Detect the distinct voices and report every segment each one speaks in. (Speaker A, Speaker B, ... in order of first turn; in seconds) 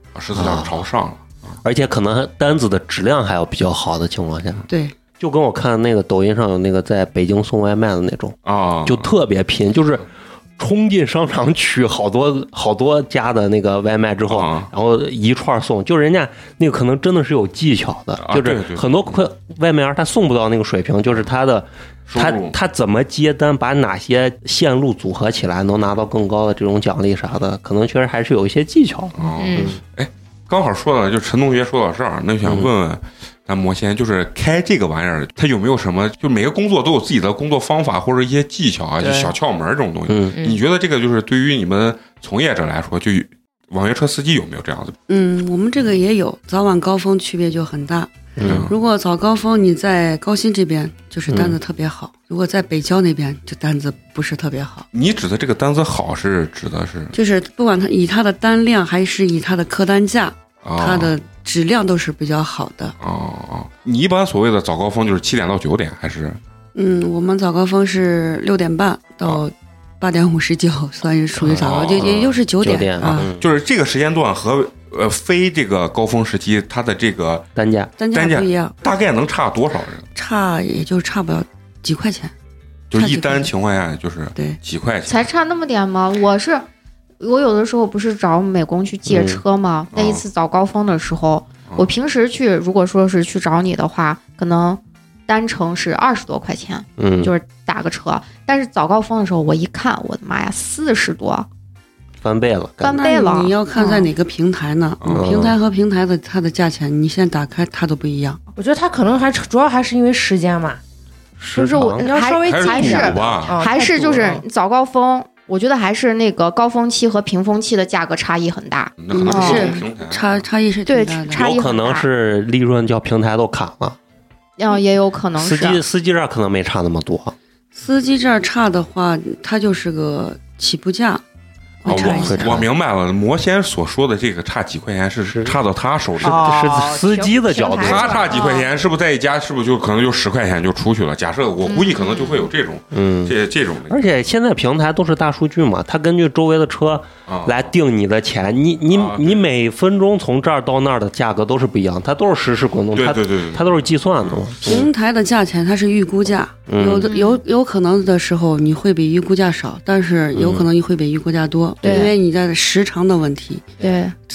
Speaker A: 0.1-1.6, 8.4-9.1, 14.3-14.7, 18.2-19.2, 22.1-22.6, 29.2-45.0, 48.4-48.7, 54.9-57.1, 60.6-61.1, 63.0-66.4, 71.4-72.4, 73.2-77.5, 78.1-80.1, 82.9-85.2, 89.9-90.2, 105.0-105.5, 112.4-113.6, 119.0-120.4, 131.9-136.6, 137.8-144.1, 147.3-147.6, 148.9-149.4, 152.9-154.5
Speaker B: 0.3-0.7, 1.6-4.6, 5.2-10.1, 10.6-29.8, 40.1-40.4, 48.4-48.7, 72.0-73.5, 77.6-77.9, 89.1-89.4, 97.0-97.3, 102.2-103.0, 105.1-105.6, 111.4-113.1, 121.3-124.0, 125.4-127.3, 131.8-132.7, 135.3-135.6, 136.2-138.3, 142.9-143.3, 143.9-154.9, 156.7-157.1, 160.4-160.6
Speaker C: 4.7-5.0, 45.1-54.9, 57.1-63.0, 66.8-73.3, 78.0-78.8, 80.1-82.3, 83.0-83.5, 102.9-108.4, 119.1-121.5, 127.8-131.2, 131.8-132.6, 154.6-163.7
Speaker D: 29.4-29.7, 39.0-39.3, 40.4-40.6, 108.6-110.8, 112.0-114.4, 136.2-138.3
Speaker E: 85.1-86.6, 87.2-101.5, 102.8-104.1, 111.6-119.8, 120.9-122.1, 124.6-125.8, 138.3-138.7, 141.7-142.5, 157.1-157.4, 161.8-162.1, 163.8-164.1